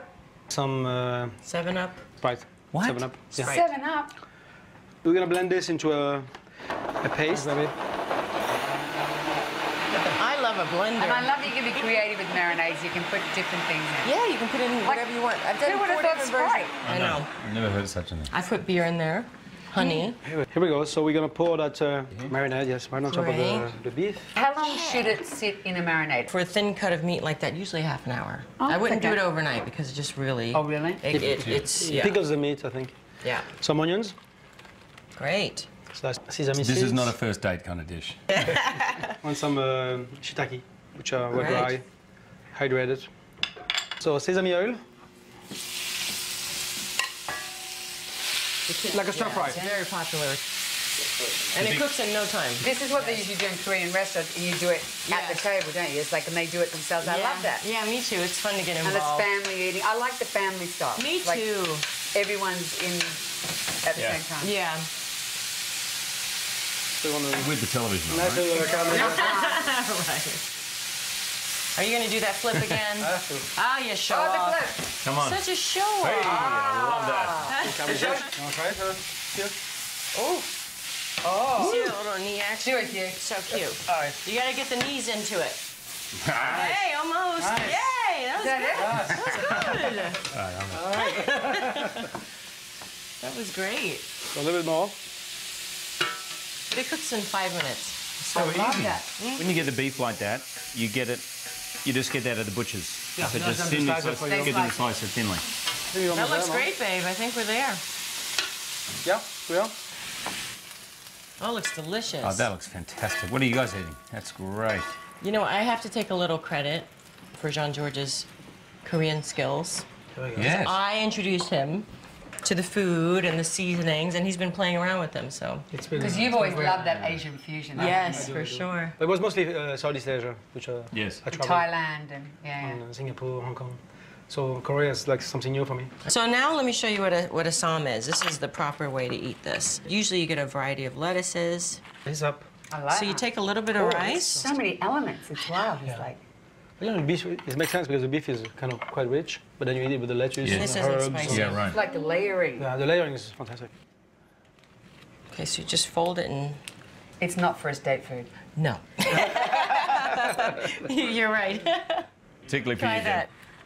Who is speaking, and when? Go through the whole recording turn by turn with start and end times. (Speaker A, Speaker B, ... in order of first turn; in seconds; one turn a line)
Speaker A: 0.5-1.4
Speaker B: 1.5-2.0
Speaker A: 2.2-3.5
Speaker C: 2.7-3.1
Speaker D: 3.4-4.1
Speaker A: 5.0-6.3
Speaker A: 7.0-7.8
Speaker B: 9.9-11.5
Speaker D: 11.0-14.1
Speaker B: 14.0-17.3
Speaker D: 15.6-16.8
Speaker C: 16.8-18.3
Speaker B: 18.3-20.2
Speaker D: 19.8-20.1
Speaker A: 20.2-24.3
Speaker B: 23.1-23.7
Speaker D: 24.3-26.3
Speaker B: 24.6-25.2
Speaker B: 26.3-32.2
Speaker D: 28.6-29.2
Speaker D: 30.5-31.0
Speaker C: 31.1-31.7
Speaker A: 31.1-33.0
Speaker A: 33.5-34.1
Speaker B: 35.2-35.7
Speaker A: 35.9-37.1
Speaker C: 36.6-38.2
Speaker B: 38.4-39.0
Speaker A: 39.2-41.8
Speaker B: 41.3-41.8
Speaker A: 42.5-43.1
Speaker A: 44.0-44.8
Speaker B: 48.7-50.5
Speaker A: 48.9-49.6
Speaker B: 51.5-53.2
Speaker C: 51.5-51.8
Speaker D: 52.6-57.6
Speaker B: 55.1-55.5
Speaker B: 57.0-59.3
Speaker D: 58.8-61.4
Speaker B: 61.0-61.8
Speaker D: 62.1-63.2
Speaker D: 63.8-64.5
Speaker C: 64.0-64.2
Speaker B: 64.4-64.9
Speaker A: 67.0-67.5
Speaker C: 67.4-68.7
Speaker A: 68.1-69.4
Speaker B: 68.7-70.5
Speaker D: 68.8-69.6
Speaker B: 71.8-78.3
Speaker A: 73.0-73.5
Speaker D: 74.1-74.8
Speaker C: 75.0-75.4
Speaker C: 76.0-77.5
Speaker D: 76.2-78.2
Speaker A: 77.6-79.5
Speaker B: 80.2-80.5
Speaker A: 81.2-81.8
Speaker D: 81.3-81.9
Speaker B: 81.5-85.6
Speaker D: 82.6-83.2
Speaker A: 83.9-84.2
Speaker C: 86.2-86.8
Speaker B: 86.4-90.2
Speaker A: 87.4-87.8
Speaker D: 88.4-89.4
Speaker A: 88.8-89.4
Speaker C: 90.3-91.3
Speaker A: 90.7-92.0
Speaker B: 90.9-92.1
Speaker B: 93.2-94.1
Speaker A: 94.3-95.0
Speaker B: 96.7-98.1
Speaker A: 98.3-98.9
Speaker D: 98.3-99.0
Speaker C: 98.3-101.3
Speaker B: 99.2-99.5
Speaker C: 101.8-105.4
Speaker A: 103.2-104.7
Speaker D: 104.1-104.8
Speaker A: 105.9-106.7
Speaker B: 106.1-107.8
Speaker A: 109.0-109.7
Speaker B: 111.4-112.5
Speaker C: 112.2-114.8
Speaker B: 115.2-118.3
Speaker B: 118.8-119.8
Speaker A: 120.2-120.6
Speaker C: 120.3-120.8
Speaker B: 120.5-121.9
Speaker B: 122.4-125.7
Speaker A: 125.7-127.1
Speaker D: 126.0-128.3
Speaker B: 127.8-128.9
Speaker A: 128.1-131.7
Speaker C: 130.9-131.2
Speaker D: 131.3-132.8
Speaker A: 132.6-135.9
Speaker B: 136.1-141.8
Speaker A: 142.1-142.5
Speaker D: 142.7-143.2
Speaker B: 142.9-144.6
Speaker A: 143.8-144.3
Speaker D: 144.3-146.2
Speaker A: 146.8-151.7
Speaker C: 150.4-151.8
Speaker B: 150.5-151.7
Speaker D: 151.6-152.7
Speaker A: 152.6-153.7
Speaker B: 155.3-156.6
Speaker D: 157.2-158.3
Speaker B: 158.6-162.1
Speaker C: 162.5-163.2
Speaker B: 162.7-163.3